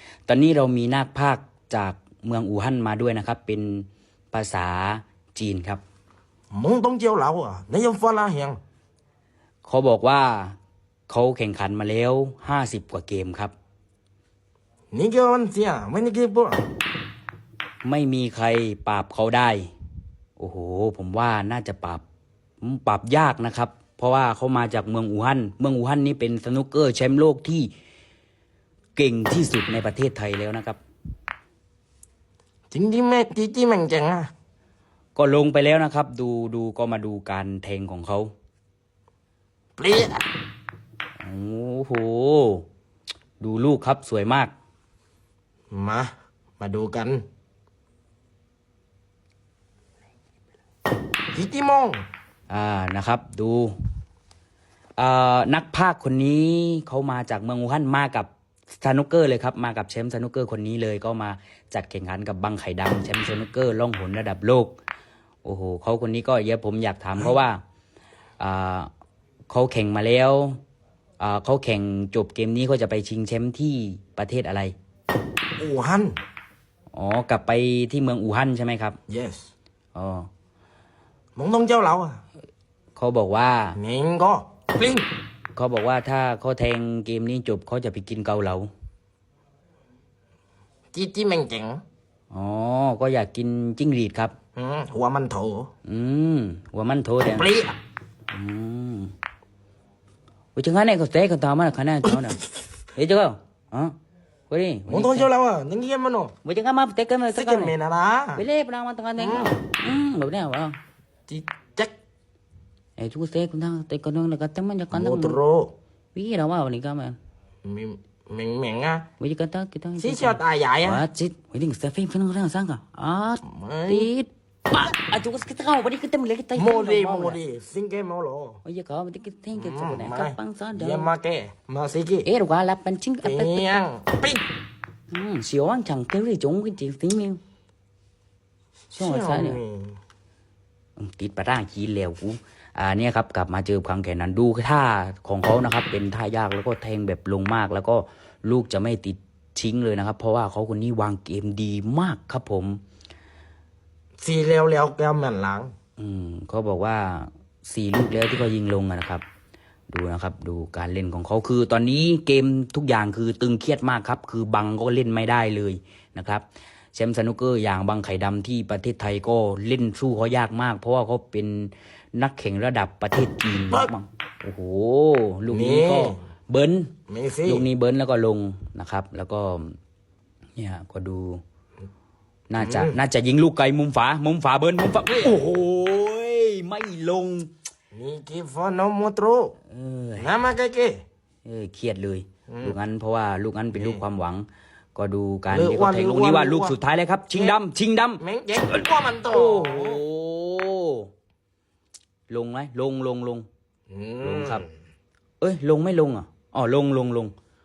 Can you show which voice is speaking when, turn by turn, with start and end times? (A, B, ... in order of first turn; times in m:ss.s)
0:00.3-0:05.8 A
0:06.5-0:08.6 B
0:09.6-0:10.6 A
0:11.1-0:13.5 A
0:14.9-0:16.6 B
0:17.8-0:19.7 A
0:20.4-0:22.0 A
0:22.6-0:27.7 A
0:29.0-0:30.8 A
0:32.7-0:34.3 B
0:35.2-0:38.3 A
0:39.8-0:40.3 B
0:41.2-0:42.6 A
0:43.4-0:44.5 A
0:45.7-0:47.2 B
0:51.3-0:52.0 B
0:52.5-0:53.7 A
0:55.0-1:04.7 A
1:05.4-1:07.6 A
1:08.4-1:08.9 A
1:09.5-1:10.6 A
1:11.2-1:14.7 A
1:15.6-1:16.2 B
1:16.9-1:19.0 A
1:19.1-1:19.5 B
1:19.9-1:20.3 A
1:21.4-1:22.2 B
1:23.0-1:23.8 A
1:23.8-1:25.0 B
1:25.6-1:28.7 A
1:30.9-1:31.8 B
1:32.3-1:34.3 A
1:34.6-1:35.7 B
1:35.8-1:37.5 A
1:37.4-1:37.8 B
1:38.3-1:39.1 A
1:40.5-1:42.4 A
1:42.9-1:43.9 A
1:44.5-1:45.3 A
1:44.9-1:46.3 B
1:46.4-1:47.7 A
1:47.3-1:48.4 B
1:48.4-1:50.8 A
1:49.2-1:49.5 B
1:51.3-1:51.9 B
1:53.0-1:55.4 A
1:54.9-1:55.7 B
1:56.1-1:57.2 A
1:57.6-1:59.1 B
1:59.2-2:07.4 A
2:00.0-2:01.0 B
2:03.4-2:04.1 B
2:06.6-2:08.6 B
2:08.6-2:11.1 A
2:09.5-2:12.3 B
2:12.2-2:13.7 A
2:13.2-2:14.4 B
2:15.1-2:17.4 A
2:18.9-2:20.0 B
2:19.0-2:19.6 A
2:21.0-2:32.8 A
2:34.2-2:35.7 B
2:36.0-2:39.2 A
2:39.9-2:56.9 A
2:55.5-2:56.2 B
2:57.1-2:57.6 B
2:57.4-2:59.8 A
3:00.6-3:01.4 A
3:02.5-3:07.5 A
3:02.6-3:03.0 B
3:05.1-3:05.4 B
3:07.9-3:09.6 B
3:09.7-3:10.3 A
3:10.2-3:11.0 B
3:11.4-3:18.2 A
3:12.5-3:12.8 B
3:13.7-3:14.0 B
3:15.5-3:16.8 B
3:18.2-3:20.0 B
3:19.3-3:21.1 A
3:22.3-3:23.4 A
3:23.9-3:24.7 B
3:24.2-3:24.6 A
3:25.4-3:27.3 A